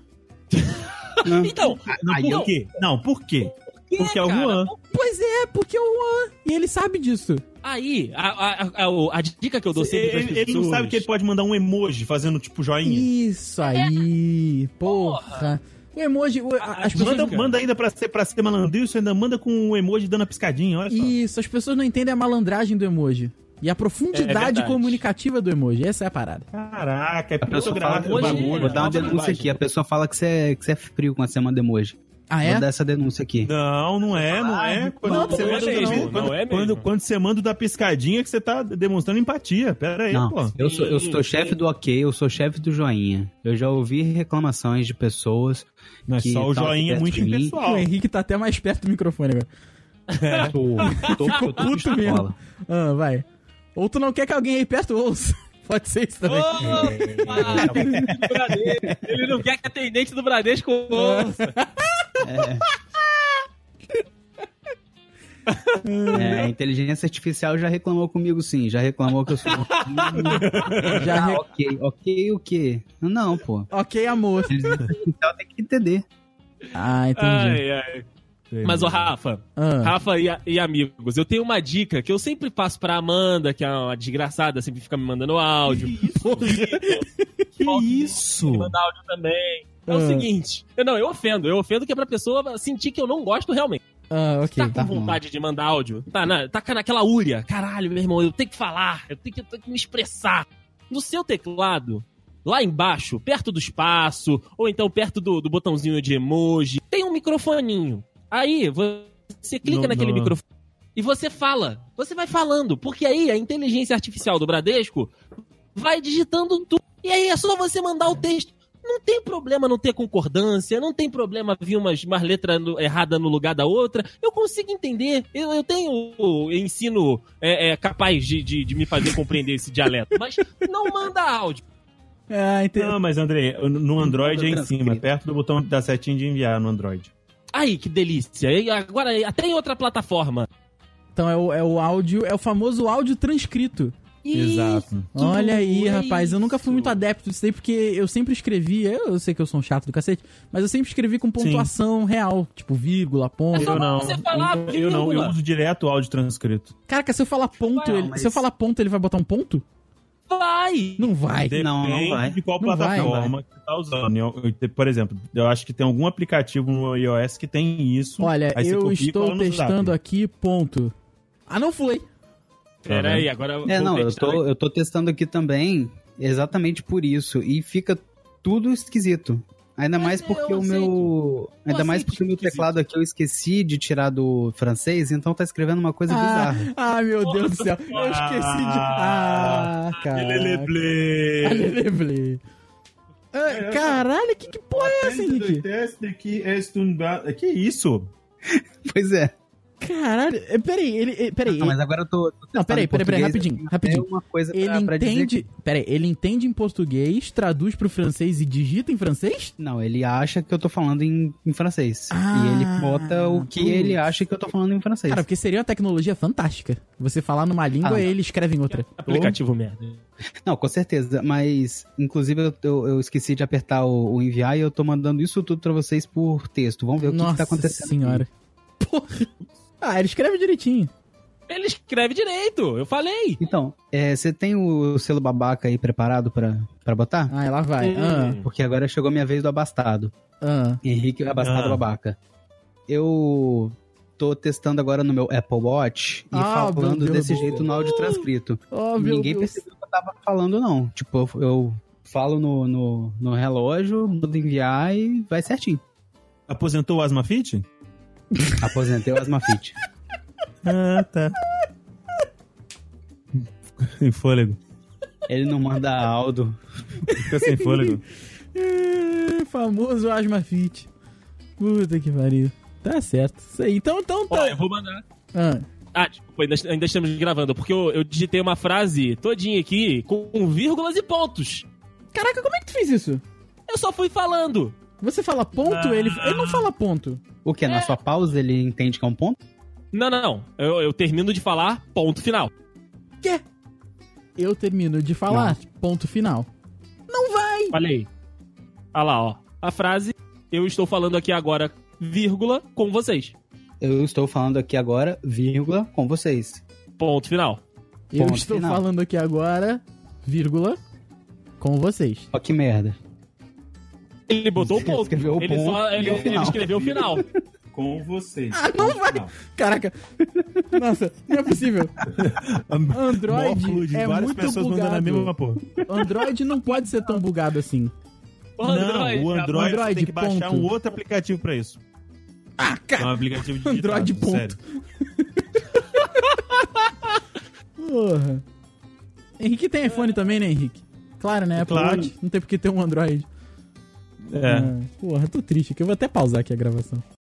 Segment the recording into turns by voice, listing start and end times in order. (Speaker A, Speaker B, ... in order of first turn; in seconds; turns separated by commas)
Speaker A: 0.5-2.5, Speaker B: 1.2-2.5, Speaker C: 1.9-4.7, Speaker A: 3.4-4.8, Speaker D: 4.9-7.4, Speaker A: 7.6-11.1, Speaker C: 9.7-13.1, Speaker D: 12.8-17.4, Speaker A: 13.6-14.1, Speaker A: 14.8-15.5, Speaker A: 16.6-17.6, Speaker C: 16.9-21.1, Speaker D: 20.9-26.5, Speaker A: 24.1-25.0, Speaker C: 26.5-29.2, Speaker B: 27.4-33.5, Speaker A: 27.5-29.5, Speaker D: 32.3-32.6, Speaker C: 33.4-40.5, Speaker A: 34.1-36.9, Speaker D: 35.0-36.1, Speaker B: 40.1-47.6, Speaker A: 40.6-41.5, Speaker C: 46.1-47.9, Speaker D: 47.6-49.5, Speaker A: 50.1-51.5, Speaker C: 50.2-50.6, Speaker B: 50.4-52.3, Speaker D: 51.0-58.1, Speaker A: 56.2-61.5, Speaker B: 56.6-59.3, Speaker D: 60.9-62.1, Speaker B: 62.2-62.6, Speaker A: 65.5-66.2, Speaker D: 65.8-66.5, Speaker B: 66.1-73.7, Speaker A: 69.4-71.1, Speaker C: 70.2-71.0, Speaker D: 70.9-71.4, Speaker D: 73.7-74.8, Speaker B: 74.5-76.0, Speaker D: 76.7-77.6, Speaker A: 77.2-78.0, Speaker C: 78.5-79.1, Speaker A: 78.6-87.0, Speaker D: 79.6-79.9, Speaker D: 85.8-88.7, Speaker A: 87.6-93.8, Speaker D: 89.9-90.3, Speaker D: 94.1-94.8, Speaker A: 94.5-110.4, Speaker B: 94.7-95.2, Speaker C: 109.6-110.3, Speaker A: 111.0-115.1, Speaker A: 115.7-131.6, Speaker D: 132.3-132.9, Speaker C: 132.8-137.1, Speaker B: 134.0-135.0, Speaker A: 137.5-140.5, Speaker D: 141.2-143.9, Speaker A: 144.2-147.0, Speaker C: 144.3-145.1, Speaker D: 145.1-153.9, Speaker C: 151.4-151.7, Speaker A: 153.5-155.4, Speaker C: 153.5-156.7, Speaker D: 156.9-159.6, Speaker A: 157.7-158.1, Speaker B: 157.8-158.4, Speaker A: 160.3-161.1, Speaker D: 161.0-161.6, Speaker C: 161.5-169.9, Speaker B: 161.5-162.4, Speaker D: 162.6-163.3, Speaker B: 162.9-163.3, Speaker D: 168.2-170.9, Speaker D: 171.5-172.0, Speaker A: 172.8-174.4, Speaker C: 172.9-173.3, Speaker B: 173.6-186.7, Speaker A: 180.0-181.1, Speaker A: 181.7-182.7, Speaker D: 186.1-190.7, Speaker A: 187.2-187.7, Speaker C: 187.9-191.8, Speaker D: 191.4-192.4, Speaker D: 193.3-195.7, Speaker C: 193.5-194.1, Speaker C: 194.7-198.1, Speaker B: 198.5-199.3, Speaker D: 199.8-201.8, Speaker B: 201.5-205.4, Speaker D: 202.5-209.5, Speaker B: 209.6-215.2, Speaker D: 212.1-214.1, Speaker D: 215.1-218.8, Speaker B: 217.8-218.1, Speaker A: 218.8-220.0, Speaker C: 219.1-219.4, Speaker B: 220.4-228.2, Speaker D: 227.0-228.3, Speaker D: 228.8-229.3, Speaker D: 229.8-230.9, Speaker A: 231.5-233.4, Speaker B: 233.4-237.3, Speaker D: 237.3-238.4, Speaker A: 237.8-238.4, Speaker B: 238.4-240.1, Speaker D: 240.4-240.8, Speaker B: 240.8-242.2, Speaker C: 241.4-241.8, Speaker B: 242.9-255.8, Speaker D: 246.3-249.6, Speaker C: 256.5-257.6, Speaker D: 258.3-258.6, Speaker B: 258.6-259.7, Speaker C: 260.6-261.4, Speaker C: 263.4-264.6, Speaker B: 265.3-266.6, Speaker D: 267.1-267.9, Speaker C: 267.2-268.0, Speaker D: 268.5-270.9, Speaker D: 271.6-274.6, Speaker A: 274.3-275.0, Speaker D: 275.3-275.6, Speaker A: 275.9-281.6, Speaker D: 282.1-283.2, Speaker A: 283.7-284.7, Speaker D: 285.0-287.2, Speaker C: 285.6-286.7, Speaker B: 287.4-289.4, Speaker A: 287.7-288.0, Speaker A: 289.9-292.5, Speaker D: 294.4-296.5, Speaker B: 295.3-295.6, Speaker D: 297.1-297.8, Speaker A: 297.7-298.1, Speaker A: 298.9-303.3, Speaker B: 303.8-306.6, Speaker A: 307.0-307.6, Speaker D: 308.1-310.8, Speaker B: 308.1-308.8, Speaker D: 311.6-312.3, Speaker B: 312.3-312.9, Speaker A: 314.3-317.2, Speaker B: 314.6-317.3, Speaker C: 316.0-317.1, Speaker C: 317.7-319.3, Speaker D: 318.5-319.9, Speaker B: 320.3-320.6, Speaker D: 320.7-321.9, Speaker C: 322.0-326.2, Speaker D: 322.9-327.9, Speaker A: 328.6-329.8, Speaker C: 328.6-331.8, Speaker D: 329.5-330.7, Speaker D: 332.6-336.2, Speaker C: 333.0-334.6, Speaker D: 337.8-338.4, Speaker D: 339.4-343.2, Speaker C: 341.6-342.1, Speaker C: 344.3-344.7, Speaker D: 344.4-347.0